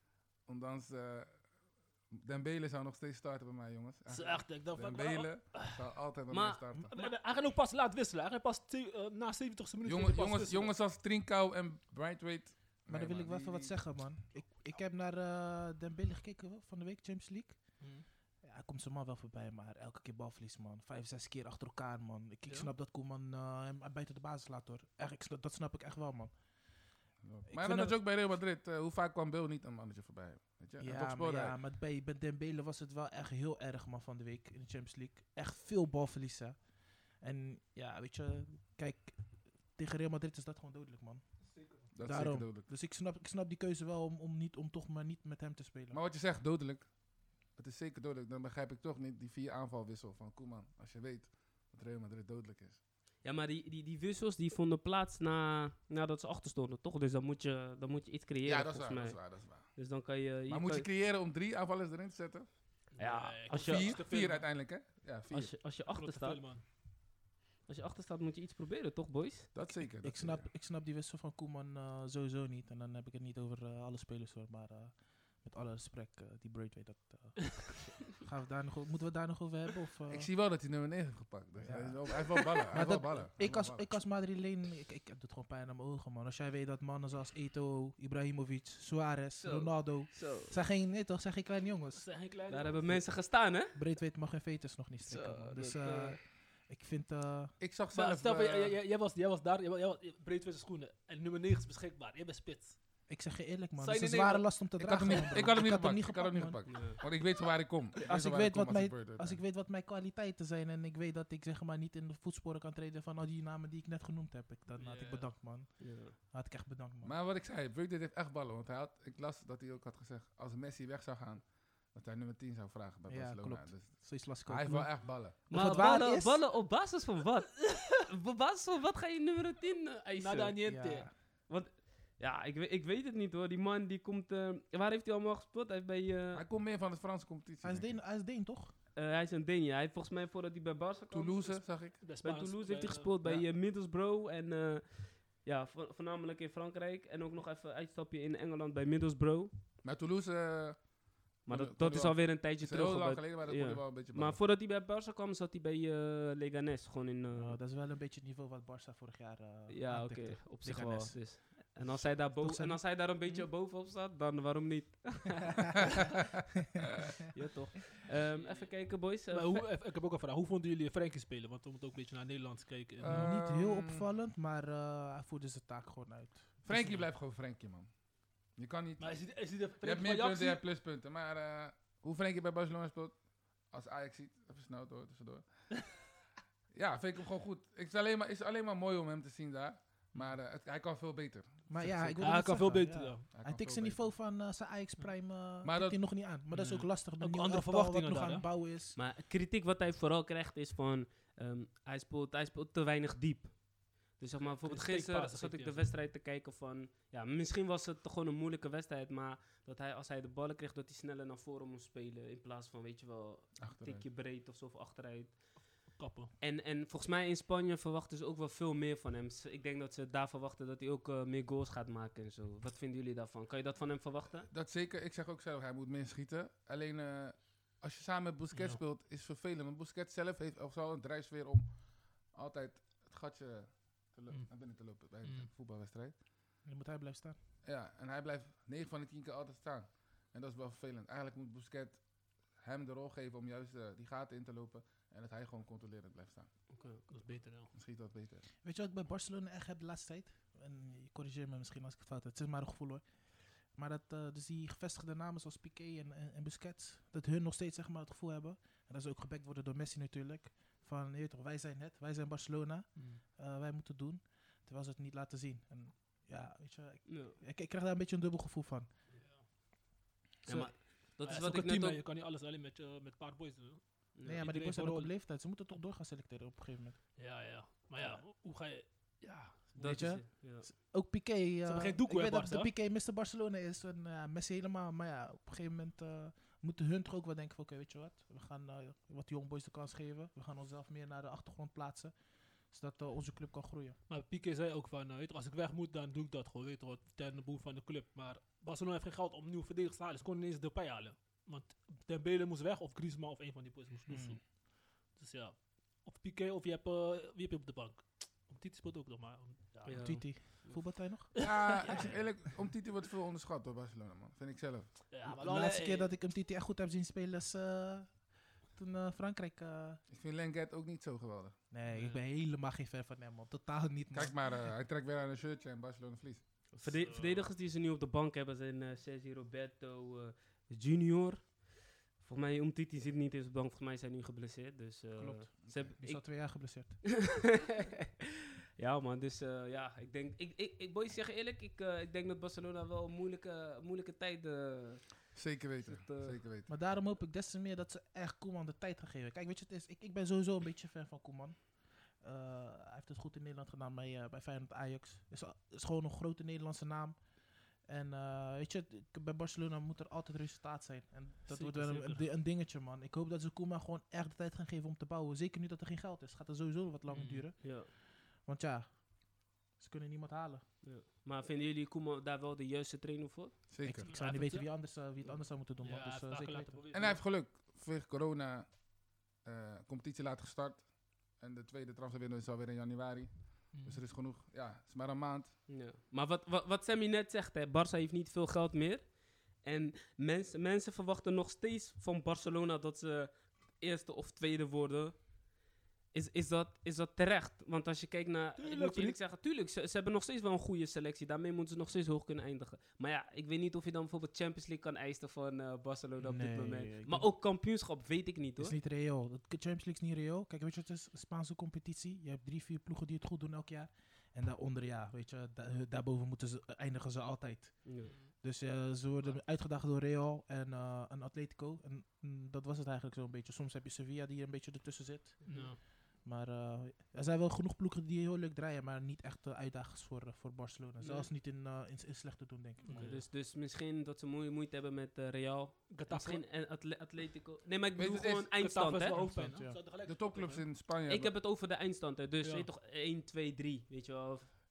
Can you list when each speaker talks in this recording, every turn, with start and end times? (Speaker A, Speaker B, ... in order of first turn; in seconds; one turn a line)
Speaker A: 0.5-1.4
Speaker A: 2.1-6.9
Speaker B: 4.1-5.8
Speaker C: 6.3-7.1
Speaker B: 6.9-10.7
Speaker A: 9.8-13.8
Speaker D: 12.9-17.6
Speaker B: 17.8-18.1
Speaker D: 18.4-26.3
Speaker A: 27.2-31.6
Speaker D: 27.5-27.9
Speaker D: 30.8-36.6
Speaker D: 37.2-41.2
Speaker B: 41.4-41.9
Speaker A: 41.9-42.7
Speaker D: 42.0-46.0
Speaker A: 45.9-47.0
Speaker A: 47.5-52.8
Speaker C: 53.2-60.9
Speaker A: 58.4-59.8
Speaker A: 60.5-62.5
Speaker B: 62.9-64.5
Speaker C: 63.0-64.0
Speaker A: 63.5-65.5
Speaker C: 65.3-66.4
Speaker B: 65.9-66.6
Speaker C: 67.7-69.5
Speaker A: 69.5-70.5
Speaker D: 70.0-80.3
Speaker A: 80.1-83.9
Speaker D: 81.6-92.1
Speaker C: 89.4-90.5
Speaker B: 91.9-93.0
Speaker C: 92.5-93.8
Speaker D: 93.7-97.6
Speaker C: 95.1-96.2
Speaker A: 97.6-98.8
Speaker B: 97.9-102.8
Speaker D: 103.1-106.6
Speaker B: 103.8-104.5
Speaker A: 104.8-109.4
Speaker C: 106.7-107.0
Speaker D: 108.0-117.2
Speaker B: 114.7-115.3
Speaker C: 115.8-116.2
Speaker A: 117.0-125.4
Speaker D: 123.1-126.4
Speaker C: 125.5-130.6
Speaker B: 130.2-131.1
Speaker D: 130.7-131.1
Speaker C: 131.5-136.4
Speaker A: 136.3-138.0
Speaker D: 137.6-138.7
Speaker C: 138.9-141.7
Speaker A: 141.1-142.0
Speaker B: 142.0-143.4
Speaker C: 142.2-149.5
Speaker A: 149.8-150.9
Speaker A: 151.4-154.4
Speaker C: 151.5-157.6
Speaker D: 157.3-162.9
Speaker C: 159.7-165.8
Speaker C: 167.3-169.7
Speaker B: 168.3-168.7
Speaker B: 169.3-173.4
Speaker A: 173.0-174.0
Speaker D: 173.1-177.0
Speaker A: 176.7-177.9
Speaker A: 178.6-185.7
Speaker B: 179.0-180.6
Speaker A: 186.7-192.6
Speaker D: 191.7-199.0
Speaker B: 192.2-193.3
Speaker A: 193.3-194.1
Speaker A: 195.6-196.0
Speaker B: 196.5-198.5
Speaker C: 198.9-215.7
Speaker B: 204.4-205.8
Speaker A: 213.6-214.1
Speaker B: 215.9-216.3
Speaker C: 216.4-224.5
Speaker A: 224.5-236.1
Speaker B: 228.5-228.8
Speaker B: 234.3-234.6
Speaker B: 235.1-235.5
Speaker D: 236.7-237.4
Speaker A: 237.6-242.0
Speaker A: 242.6-246.5
Speaker C: 246.7-247.1
Speaker B: 247.1-247.7
Speaker A: 247.7-248.4
Speaker D: 248.6-268.9
Speaker B: 263.0-263.2
Speaker C: 267.1-267.4
Speaker B: 269.1-269.4
Speaker C: 270.5-272.0
Speaker B: 270.5-275.1
Speaker C: 274.1-274.5
Speaker D: 274.2-277.0
Speaker B: 277.2-279.8
Speaker D: 279.8-292.2
Speaker C: 279.8-280.7
Speaker B: 281.6-282.7
Speaker D: 292.7-294.0
Speaker B: 294.1-310.4
Speaker D: 304.1-304.4
Speaker C: 309.9-310.9
Speaker D: 310.0-311.8
Speaker A: 311.4-315.1
Speaker B: 311.4-312.2
Speaker B: 315.1-316.1
Speaker D: 315.2-320.0
Speaker A: 320.1-321.6
Speaker D: 321.7-324.5
Speaker B: 321.9-322.2
Speaker A: 324.1-326.4
Speaker C: 326.7-331.7
Speaker B: 326.8-327.5
Speaker C: 332.2-338.3
Speaker D: 335.2-337.0
Speaker C: 338.8-346.4
Speaker A: 345.3-346.7
Speaker D: 346.7-357.3
Speaker D: 357.8-370.7
Speaker B: 361.5-362.3
Speaker B: 367.1-367.5
Speaker C: 367.6-367.9
Speaker C: 370.8-373.6
Speaker A: 373.7-374.1
Speaker D: 373.8-376.8
Speaker B: 374.1-374.8
Speaker B: 375.8-377.2
Speaker A: 376.9-378.7
Speaker A: 379.4-385.6
Speaker B: 383.7-384.0
Speaker C: 385.7-395.3
Speaker C: 396.1-408.8
Speaker B: 398.6-399.2
Speaker D: 406.2-407.3
Speaker D: 408.6-433.1
Speaker C: 417.9-418.1
Speaker B: 418.0-418.4
Speaker C: 425.4-425.8
Speaker B: 425.4-425.8
Speaker C: 431.0-431.3
Speaker B: 432.8-433.2
Speaker C: 432.9-439.3
Speaker B: 435.9-436.4
Speaker A: 438.0-438.5
Speaker B: 438.6-440.6
Speaker D: 439.1-439.8
Speaker A: 440.0-441.3
Speaker C: 441.1-444.5
Speaker B: 442.4-442.7